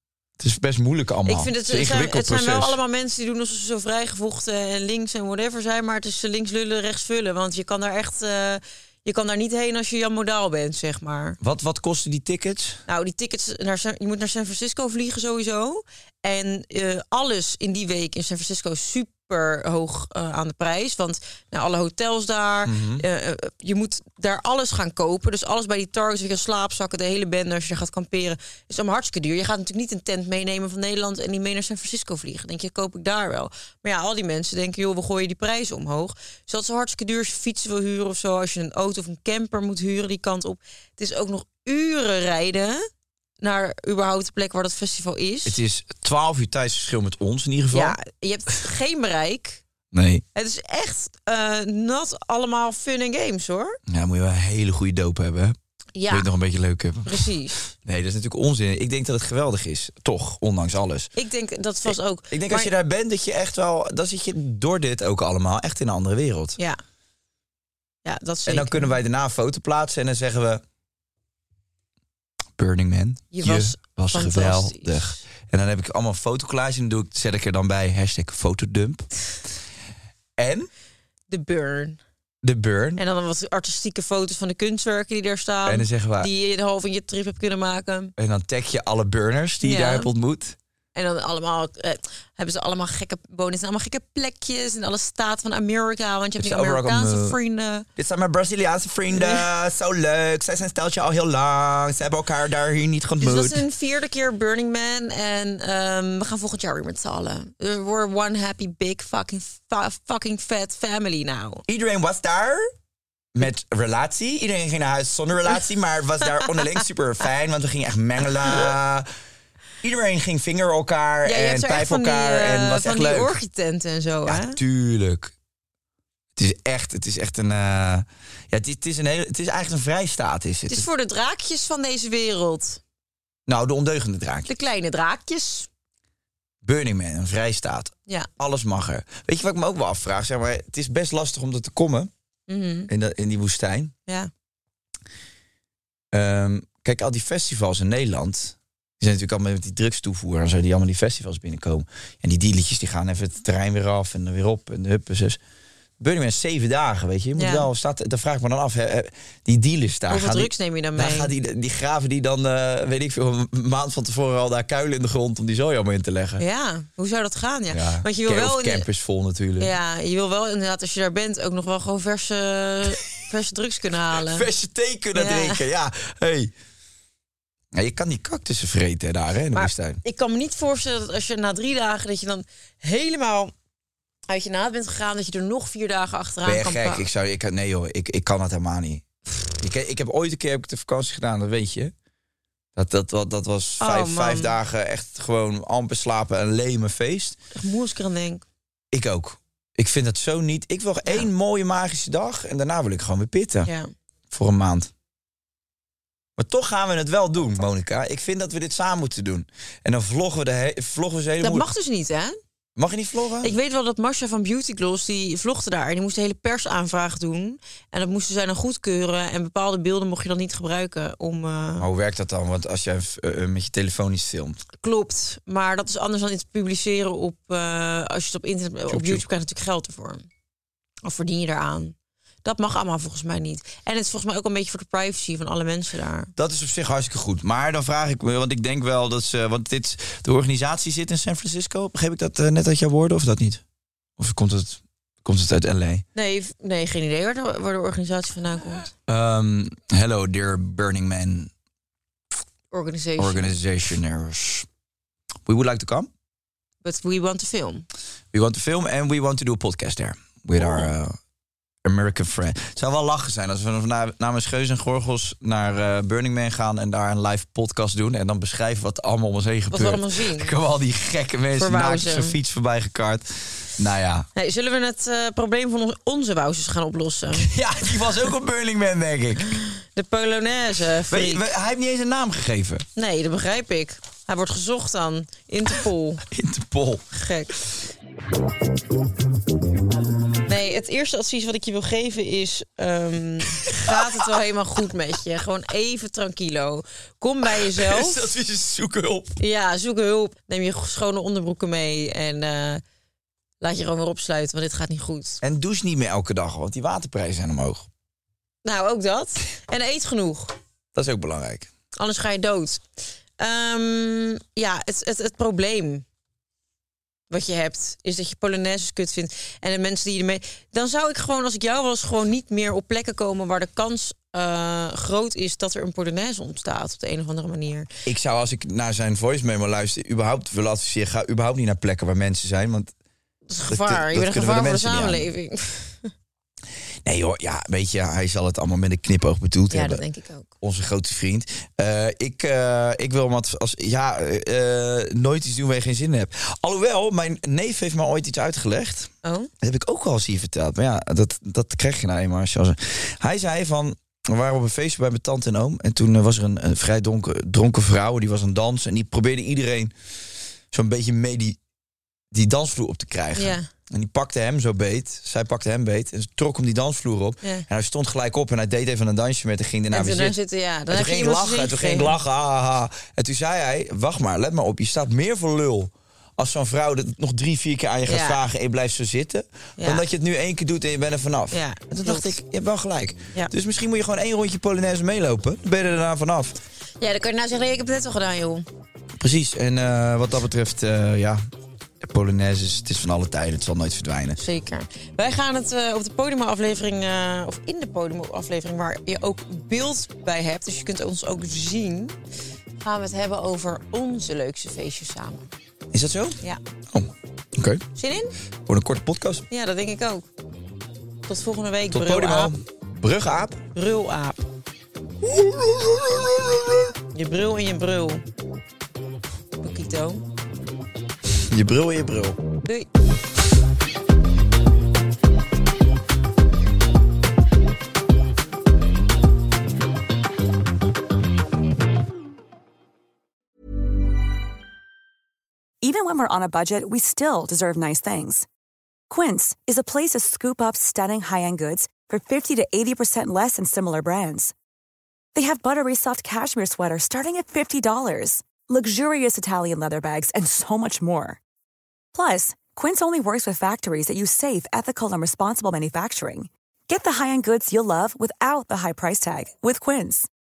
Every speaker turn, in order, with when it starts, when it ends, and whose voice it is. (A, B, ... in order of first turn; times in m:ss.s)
0:00.4-0:02.8 A
0:01.3-0:11.4 B
0:11.4-0:12.8 A
0:12.9-0:42.8 B
0:22.6-0:23.0 A
0:43.4-0:45.6 B
0:45.4-0:48.0 A
0:47.7-0:49.6 B
0:49.9-0:50.2 A
0:50.4-0:53.8 B
0:53.9-0:55.6 A
0:56.0-0:56.3 B
0:56.1-0:57.3 A
0:57.1-0:57.7 B
0:57.8-1:01.1 A
1:01.2-1:02.7 B
1:01.8-1:06.6 A
1:08.0-1:09.0 B
1:08.5-1:10.6 A
1:12.6-1:19.1 A
1:13.3-1:15.2 B
1:20.4-1:20.7 A
1:21.3-1:22.0 B
1:22.4-1:23.0 A
1:23.0-1:28.1 B
1:25.7-1:26.3 A
1:28.2-1:30.6 A
1:29.6-1:30.1 B
1:31.0-1:37.9 B
1:36.4-1:37.4 A
1:38.0-1:43.6 A
1:39.1-1:39.5 B
1:43.2-1:51.6 B
1:51.7-1:52.7 A
1:53.4-1:59.1 A
1:59.8-2:03.4 A
2:01.2-2:04.6 B
2:04.3-2:05.3 A
2:06.4-2:10.9 A
2:10.7-2:12.8 B
2:13.5-2:14.5 A
2:14.5-2:15.7 B
2:16.6-2:22.1 A
2:22.5-2:22.9 B
2:22.9-2:23.9 A
2:26.1-2:35.4 A
2:36.0-2:46.4 A
2:37.4-2:37.7 B
2:40.1-2:41.3 B
2:46.4-2:48.9 B
2:47.7-2:49.7 A
2:49.6-2:54.5 B
2:54.2-2:56.5 A
2:55.2-2:55.6 B
2:57.7-3:00.0 A
2:59.5-3:03.5 B
3:04.3-3:07.1 B
3:06.4-3:09.1 A
3:09.6-3:11.9 A
3:12.8-3:17.4 A
3:13.8-3:14.6 B
3:17.5-3:18.4 B
3:18.9-3:23.7 A
3:24.3-3:24.9 A
3:26.4-3:31.7 A
3:31.4-3:32.4 B
3:32.8-3:33.5 A
3:33.4-3:41.9 B
3:41.8-3:44.6 A
3:44.8-3:50.3 B
3:48.9-3:49.3 A
3:51.0-3:56.3 B
3:56.4-4:03.6 A
4:04.2-4:06.0 A
4:06.2-4:08.9 B
4:09.1-4:11.5 A
4:12.7-4:13.6 B
4:13.2-4:14.7 A
4:15.5-4:16.1 A
4:16.8-4:17.9 B
4:18.3-4:21.2 A
4:20.6-4:20.9 B
4:21.8-4:34.3 A
4:29.7-4:30.5 B
4:31.6-4:32.4 B
4:34.4-4:37.5 B
4:37.4-4:39.6 A
4:39.5-4:41.5 B
4:41.1-4:42.9 A
4:43.0-4:46.2 B
4:46.3-4:47.0 A
4:47.1-4:47.5 B
4:50.5-4:58.3 B
4:53.6-4:54.2 A
4:57.4-4:59.4 A
4:59.4-5:02.8 B
5:03.6-5:05.4 B
5:05.4-5:07.9 A
5:08.6-5:10.6 B
5:10.9-5:11.7 A
5:12.0-5:12.8 B
5:13.4-5:16.0 B
5:17.3-5:27.9 B
5:28.1-5:32.9 A
5:33.5-5:36.1 B
5:33.7-5:35.3 A
5:37.0-5:40.0 A
5:39.7-5:40.5 B
5:40.6-5:59.9 A
5:49.2-5:49.5 B
6:00.7-6:01.6 A
6:02.3-6:10.4 A
6:03.4-6:03.7 B
6:09.9-6:12.2 B
6:10.9-6:26.6 A
6:18.1-6:18.4 B
6:19.8-6:20.0 B
6:21.5-6:22.3 B
6:27.0-6:28.6 B
6:29.2-6:31.4 A
6:32.0-6:34.4 A
6:34.4-6:42.2 B
6:42.8-6:45.5 B
6:45.9-6:46.4 A
6:46.9-6:47.8 A
6:48.0-6:48.3 B
6:48.7-6:49.4 A
6:49.5-6:50.3 B
6:51.3-6:52.5 B
6:51.9-6:53.6 A
6:53.8-6:54.4 B
6:55.2-6:56.9 A
6:57.1-6:58.2 B
6:59.6-7:00.2 B
7:01.3-7:02.4 A
7:02.6-7:02.9 B
7:15.8-7:18.5 C
7:19.1-7:24.5 C
7:25.4-7:31.4 C
7:32.1-7:40.3 C